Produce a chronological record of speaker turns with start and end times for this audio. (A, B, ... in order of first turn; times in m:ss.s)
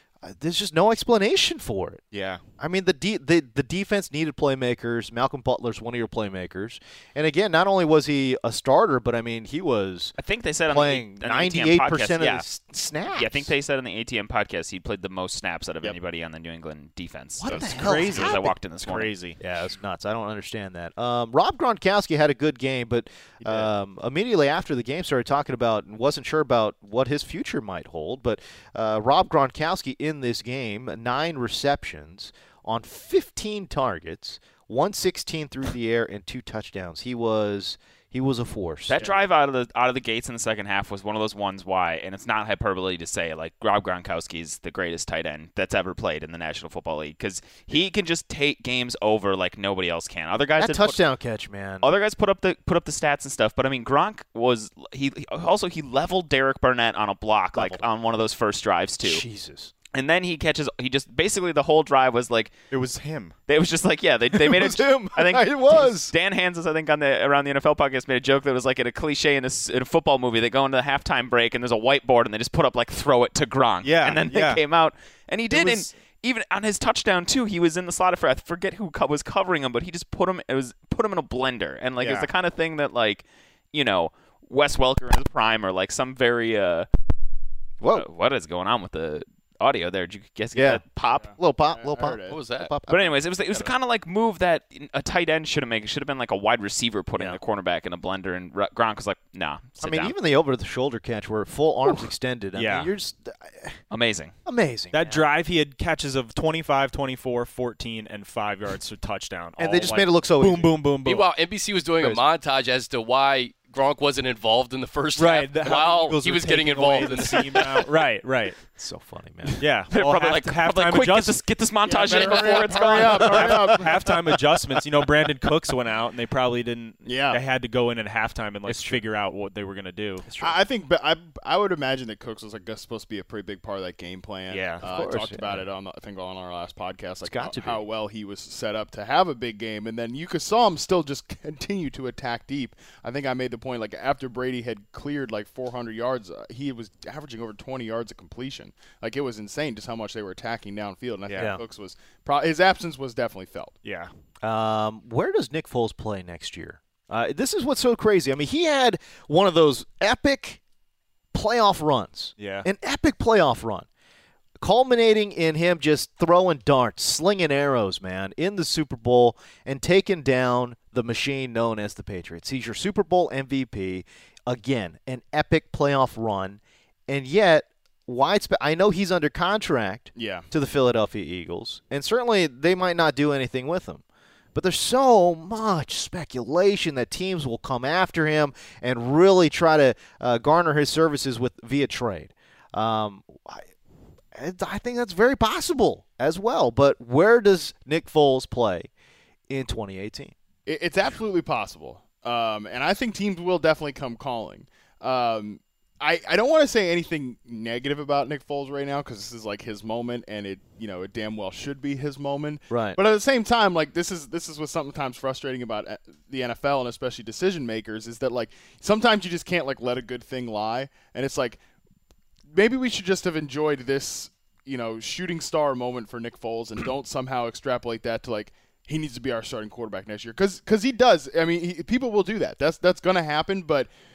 0:00.2-0:02.0 A
0:02.1-0:02.4 B
0:02.6-0:10.2 A
0:10.2-0:12.4 C
0:10.7-0:13.5 A
0:13.2-0:19.1 C
0:17.4-0:18.5 A
0:17.4-0:19.4 B
0:19.4-0:39.1 A
0:23.4-0:23.7 D
0:38.9-0:51.0 C
0:50.6-0:51.9 A
0:51.8-0:59.2 C
0:57.6-0:57.8 A
0:59.0-0:59.7 A
0:59.9-1:02.6 C
1:02.7-1:03.4 B
1:03.5-1:26.9 C
1:04.3-1:06.1 A
1:13.8-1:14.6 B
1:15.6-1:15.8 A
1:22.0-1:22.3 D
1:27.8-1:28.1 A
1:27.9-1:31.3 C
1:30.5-1:30.8 A
1:31.1-1:32.4 D
1:31.4-1:33.1 A
1:32.3-1:32.7 E
1:32.9-1:40.1 C
1:39.8-1:43.8 A
1:42.6-1:42.9 B
1:43.9-1:44.3 C
1:44.5-1:45.2 A
1:44.9-1:51.3 B
1:49.6-1:50.8 A
1:51.0-1:57.9 E
1:55.2-1:58.6 B
1:56.8-1:57.6 A
1:58.7-1:59.6 A
1:59.6-2:01.4 B
1:59.9-2:03.6 C
2:01.8-2:04.2 D
2:03.0-2:04.1 A
2:03.2-2:10.3 B
2:07.0-2:07.4 D
2:08.7-2:09.0 A
2:10.3-2:10.6 A
2:10.4-2:33.8 D
2:14.5-2:14.8 B
2:14.8-2:15.6 A
2:17.2-2:17.8 A
2:31.3-2:31.6 B
2:31.4-2:31.6 A
2:33.8-2:34.1 B
2:34.4-2:40.6 A
2:41.3-2:43.9 A
2:42.4-2:42.7 B
2:44.6-3:04.0 A
3:00.2-3:00.4 D
3:04.5-3:13.7 A
3:14.4-3:18.9 A
3:19.5-3:20.3 A
3:20.7-3:41.6 D
3:32.7-3:33.0 A
3:42.5-3:53.9 D